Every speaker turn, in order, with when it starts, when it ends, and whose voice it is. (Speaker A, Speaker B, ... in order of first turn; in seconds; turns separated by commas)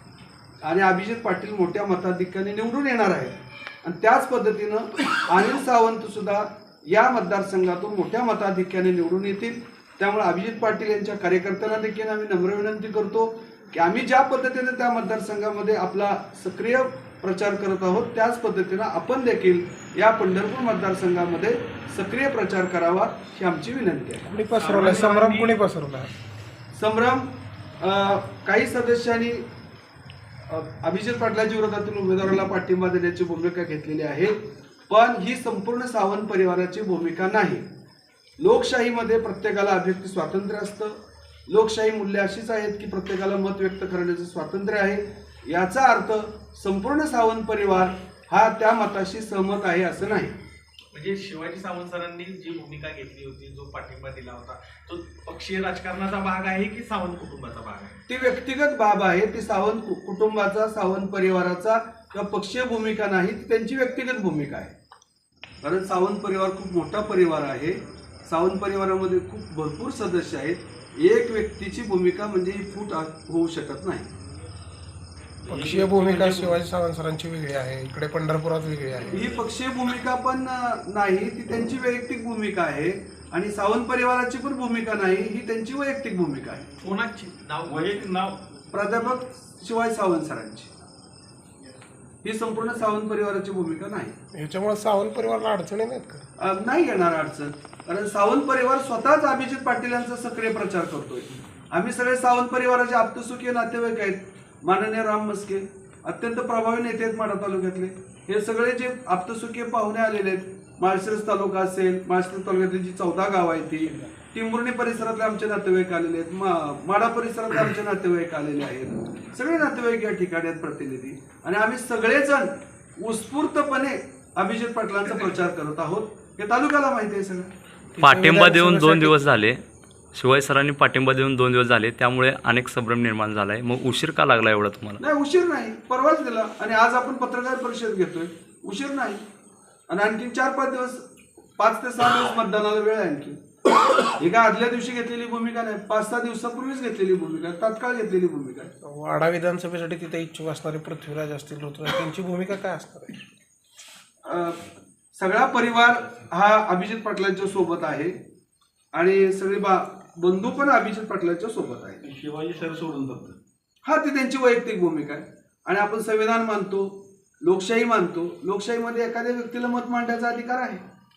Speaker A: 0.6-24.3, Speaker B: 24.2-26.1, Speaker C: 24.6-25.6, Speaker A: 26.7-29.4, Speaker A: 30.5-34.4, Speaker A: 34.9-37.6, Speaker A: 38.4-50.3, Speaker C: 50.9-58.0, Speaker A: 58.1-64.7, Speaker A: 65.6-74.1, Speaker B: 75.5-79.2, Speaker A: 79.1-86.7, Speaker C: 86.8-88.2, Speaker D: 87.6-88.4, Speaker A: 88.7-90.7, Speaker A: 92.2-94.1, Speaker B: 94.3-96.2, Speaker A: 96.4-127.5, Speaker E: 128.0-129.6, Speaker A: 128.1-129.2, Speaker E: 130.1-135.0, Speaker A: 135.0-139.2, Speaker A: 139.9-141.0, Speaker A: 141.6-143.4, Speaker A: 144.2-148.7, Speaker B: 148.8-153.1, Speaker A: 154.2-154.6, Speaker A: 155.1-158.2, Speaker A: 158.9-162.0, Speaker D: 162.0-163.4, Speaker A: 163.8-170.8